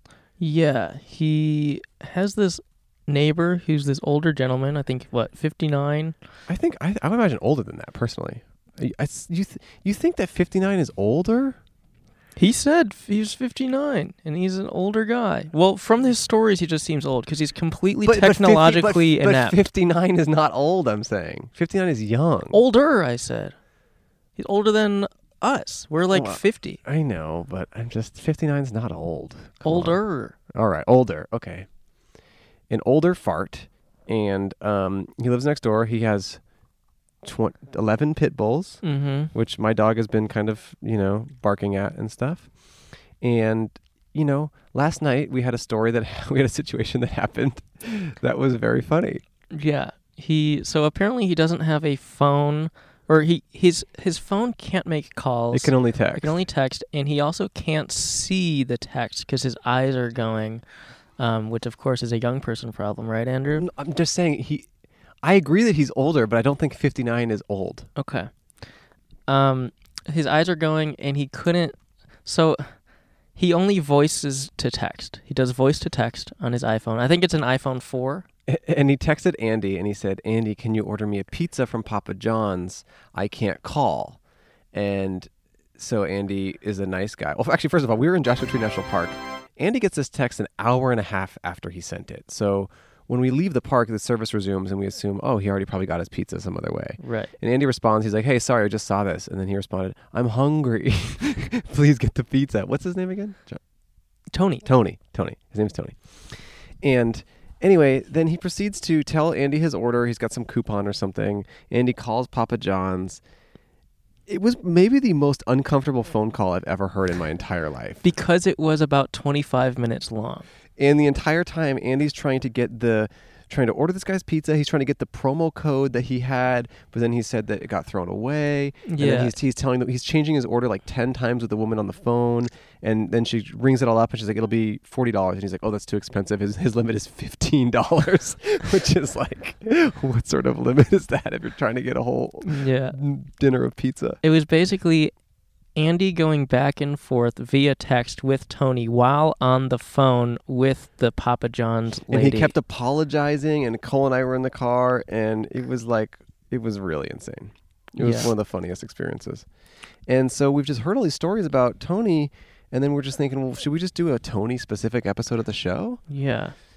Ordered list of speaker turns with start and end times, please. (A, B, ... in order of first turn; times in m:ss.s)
0:00.4-0:06.2 A
0:06.5-0:11.6 B
0:12.4-0:19.6 A
0:18.0-0:22.6 B
0:22.5-0:23.6 A
0:24.4-0:26.8 A
0:26.1-0:31.7 B
0:29.6-0:30.3 A
0:32.7-0:36.4 B
0:37.2-0:42.5 B
0:38.8-0:39.3 A
0:43.2-0:49.2 B
0:49.5-1:00.6 A
0:55.5-0:56.3 B
1:01.2-1:03.7 A
1:03.6-1:04.7 B
1:05.2-1:07.9 B
1:08.0-1:08.3 A
1:09.3-1:12.8 A
1:13.3-1:18.2 A
1:18.5-1:24.2 B
1:24.7-1:43.6 B
1:37.0-1:37.3 A
1:44.3-1:44.6 A
1:44.6-1:53.2 B
1:54.3-1:58.0 B
1:58.0-2:00.4 A
2:00.8-2:24.2 B
2:08.8-2:09.3 A
2:22.4-2:23.0 A
2:24.2-2:25.1 A
2:25.7-2:32.5 A
2:32.1-2:39.4 B
2:38.0-2:38.3 A
2:40.1-2:46.0 B
2:46.1-2:46.5 A